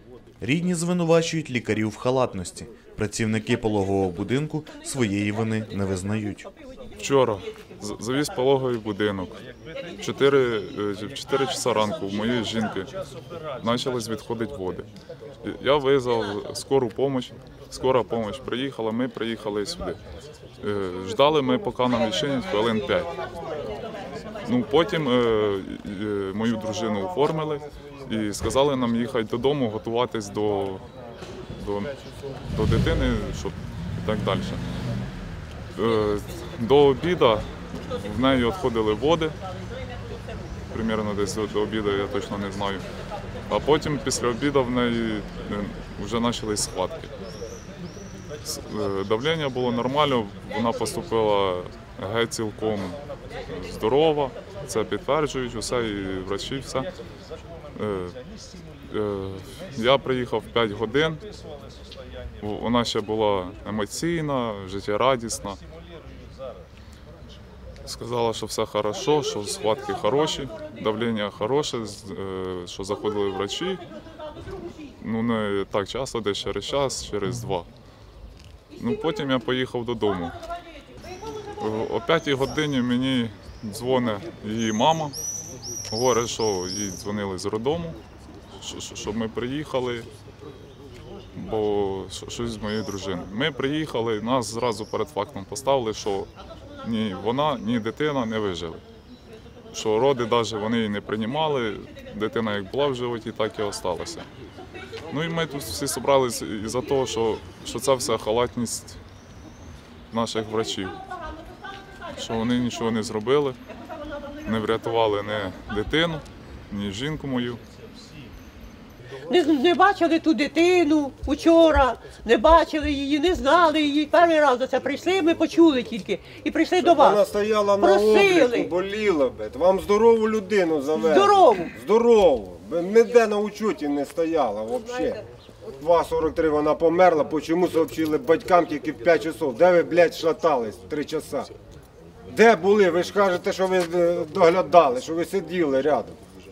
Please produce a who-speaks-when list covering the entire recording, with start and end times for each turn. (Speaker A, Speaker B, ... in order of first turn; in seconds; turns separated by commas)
Speaker A: 0.4-6.5, Speaker B: 7.0-9.4, Speaker B: 10.0-12.9, Speaker B: 13.6-14.9, Speaker B: 15.4-20.0, Speaker B: 20.6-23.1, Speaker B: 24.4-30.8, Speaker B: 31.6-31.9, Speaker B: 32.5-34.6, Speaker B: 35.8-39.4, Speaker B: 40.7-42.9, Speaker B: 43.5-47.1, Speaker B: 48.4-56.9, Speaker B: 57.7-58.2, Speaker B: 58.9-61.2, Speaker B: 62.4-65.6, Speaker B: 67.8-73.8, Speaker B: 75.0-77.7, Speaker B: 78.8-80.4, Speaker B: 81.6-85.2, Speaker B: 85.9-88.0, Speaker B: 88.6-90.1, Speaker B: 91.3-96.3, Speaker B: 96.8-98.8, Speaker B: 99.7-104.3, Speaker B: 105.1-109.0, Speaker B: 110.1-111.0, Speaker B: 112.2-113.6, Speaker B: 114.4-117.6, Speaker C: 119.3-128.7, Speaker D: 126.7-141.5, Speaker C: 130.9-131.7, Speaker D: 142.3-146.2